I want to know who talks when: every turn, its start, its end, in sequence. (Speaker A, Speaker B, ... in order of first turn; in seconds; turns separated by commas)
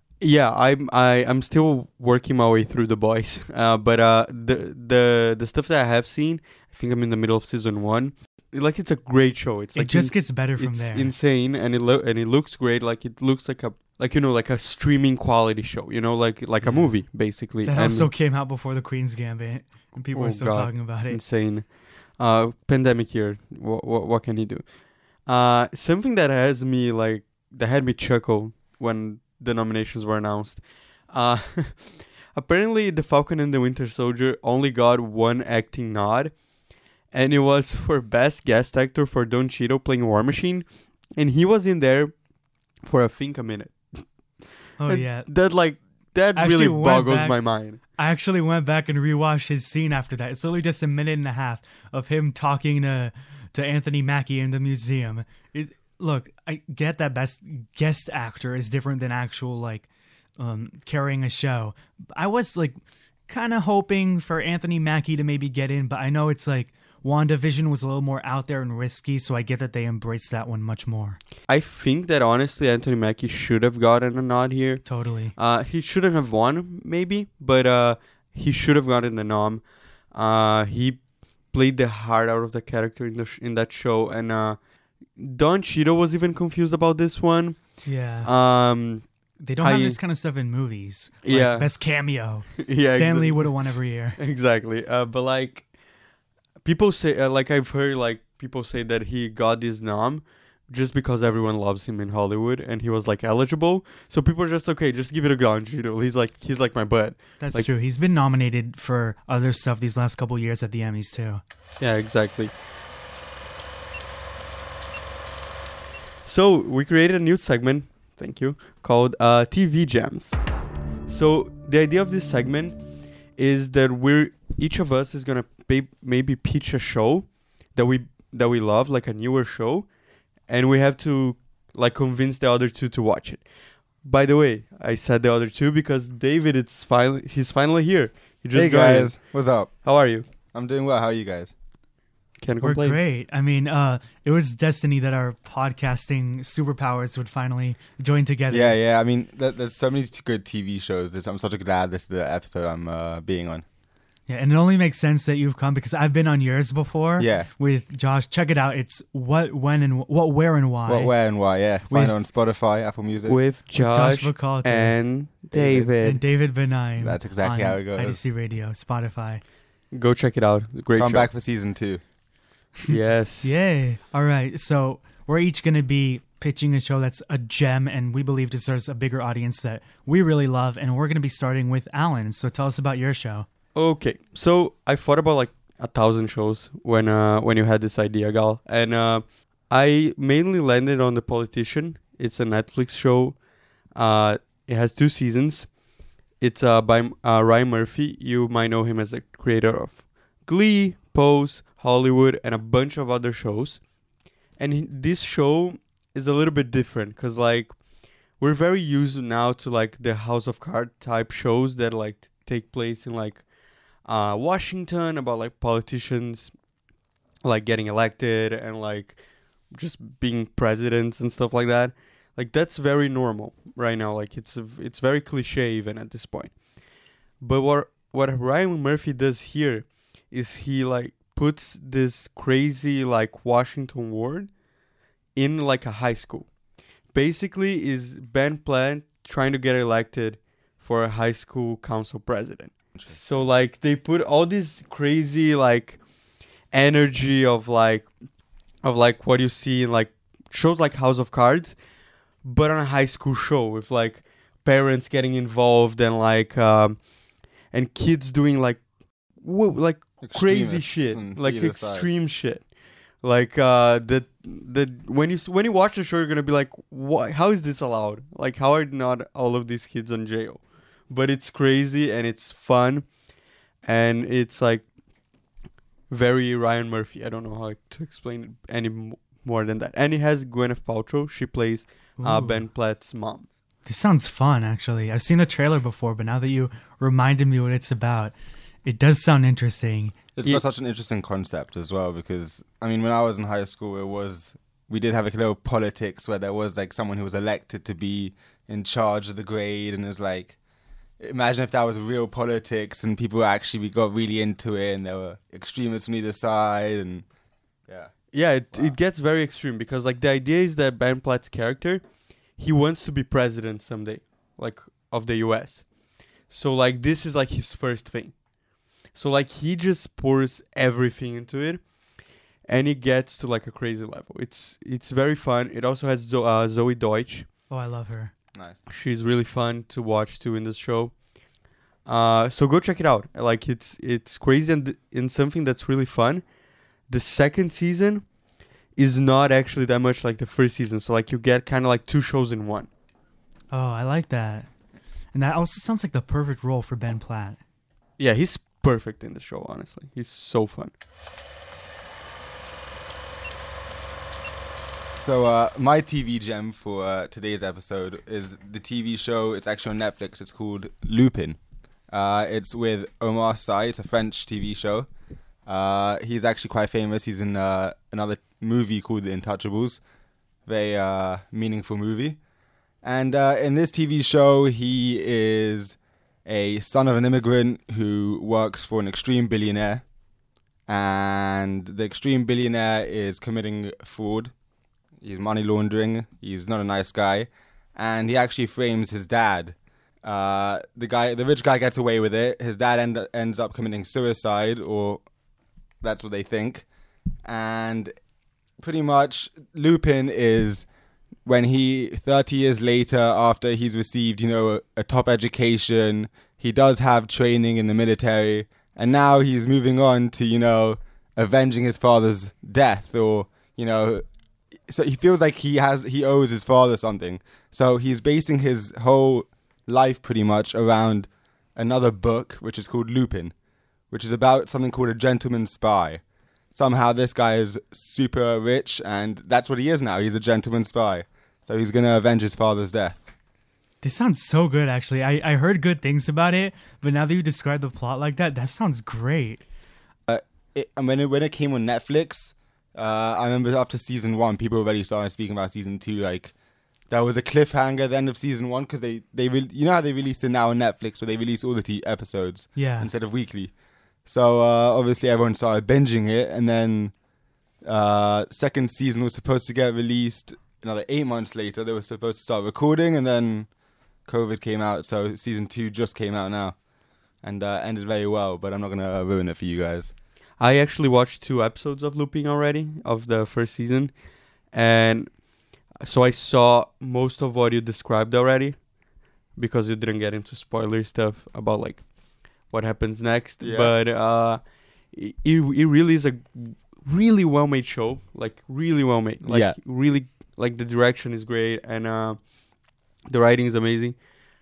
Speaker A: 0.2-18.1, Speaker B: 9.7-11.1, Speaker B: 16.6-17.0, Speaker B: 17.6-21.2, Speaker A: 20.1-36.4, Speaker A: 37.1-40.6, Speaker A: 41.1-42.1, Speaker A: 42.8-47.8, Speaker B: 44.8-45.3, Speaker B: 46.4-47.4, Speaker B: 48.0-59.9, Speaker B: 60.4-71.2, Speaker A: 71.5-84.6, Speaker B: 74.8-75.3, Speaker A: 85.1-89.0, Speaker B: 87.8-88.3, Speaker B: 89.4-94.2, Speaker A: 89.6-90.0, Speaker A: 91.2-91.9, Speaker A: 92.6-93.5, Speaker A: 94.2-95.7, Speaker A: 96.6-107.7, Speaker B: 107.4-111.4, Speaker A: 111.8-112.5, Speaker A: 116.2-120.4, Speaker A: 121.1-122.8, Speaker A: 123.3-129.9, Speaker A: 130.5-133.4, Speaker A: 134.0-139.3, Speaker C: 138.5-139.7, Speaker A: 139.8-140.2, Speaker C: 140.5-141.5, Speaker A: 142.4-143.0, Speaker B: 142.6-148.8, Speaker C: 148.5-153.6, Speaker B: 154.3-161.1, Speaker C: 157.2-157.5, Speaker C: 160.8-163.4, Speaker B: 161.9-162.2, Speaker A: 163.2-166.2, Speaker B: 163.8-164.9, Speaker C: 165.5-165.9, Speaker B: 166.0-169.4, Speaker C: 167.0-168.2, Speaker A: 169.9-171.3, Speaker C: 170.9-172.0, Speaker A: 172.9-173.6, Speaker B: 173.4-183.4, Speaker A: 183.7-193.4, Speaker A: 193.9-195.8, Speaker A: 196.4-203.8, Speaker A: 204.6-207.8, Speaker A: 208.3-213.4, Speaker A: 214.0-216.5, Speaker A: 217.4-219.2, Speaker A: 219.7-226.6, Speaker A: 227.4-234.5, Speaker A: 235.3-236.5, Speaker A: 237.1-246.0, Speaker C: 243.0-243.5, Speaker A: 246.7-248.1, Speaker A: 248.8-251.8, Speaker A: 252.4-257.0, Speaker A: 257.7-258.8, Speaker A: 259.4-262.7, Speaker C: 260.2-262.1, Speaker A: 263.2-273.1, Speaker A: 273.8-274.9, Speaker A: 276.1-283.5, Speaker B: 282.2-282.6, Speaker B: 283.9-288.3, Speaker B: 288.8-290.3, Speaker C: 290.4-300.6, Speaker C: 301.2-307.2, Speaker C: 307.9-308.1, Speaker A: 308.3-312.0, Speaker C: 308.7-309.0, Speaker A: 312.6-315.9, Speaker A: 316.5-318.4, Speaker A: 319.1-321.8, Speaker A: 322.7-327.5, Speaker B: 327.7-328.3, Speaker A: 328.9-331.1, Speaker A: 332.1-336.4, Speaker A: 337.1-338.2, Speaker A: 338.9-342.9, Speaker B: 343.7-344.7, Speaker B: 345.3-347.6, Speaker A: 348.2-350.9, Speaker C: 355.2-361.6, Speaker C: 362.1-365.1, Speaker C: 365.6-370.0, Speaker C: 370.7-372.4, Speaker C: 373.0-380.0, Speaker C: 380.9-384.5, Speaker C: 385.2-395.2, Speaker C: 396.0-396.9, Speaker C: 397.4-398.1, Speaker C: 398.8-400.9, Speaker C: 401.4-414.2, Speaker C: 414.9-423.5, Speaker C: 424.1-426.2, Speaker C: 426.7-433.2, Speaker B: 434.0-439.6, Speaker C: 440.3-446.5, Speaker C: 447.1-453.7, Speaker B: 452.8-453.1, Speaker C: 454.2-457.1, Speaker C: 457.8-463.7, Speaker C: 464.3-466.8, Speaker C: 467.4-470.1, Speaker A: 470.6-474.1, Speaker A: 474.7-475.4, Speaker A: 476.0-478.9, Speaker A: 479.6-482.1, Speaker A: 482.6-492.4, Speaker C: 483.6-483.9, Speaker C: 489.4-489.8, Speaker A: 493.3-494.2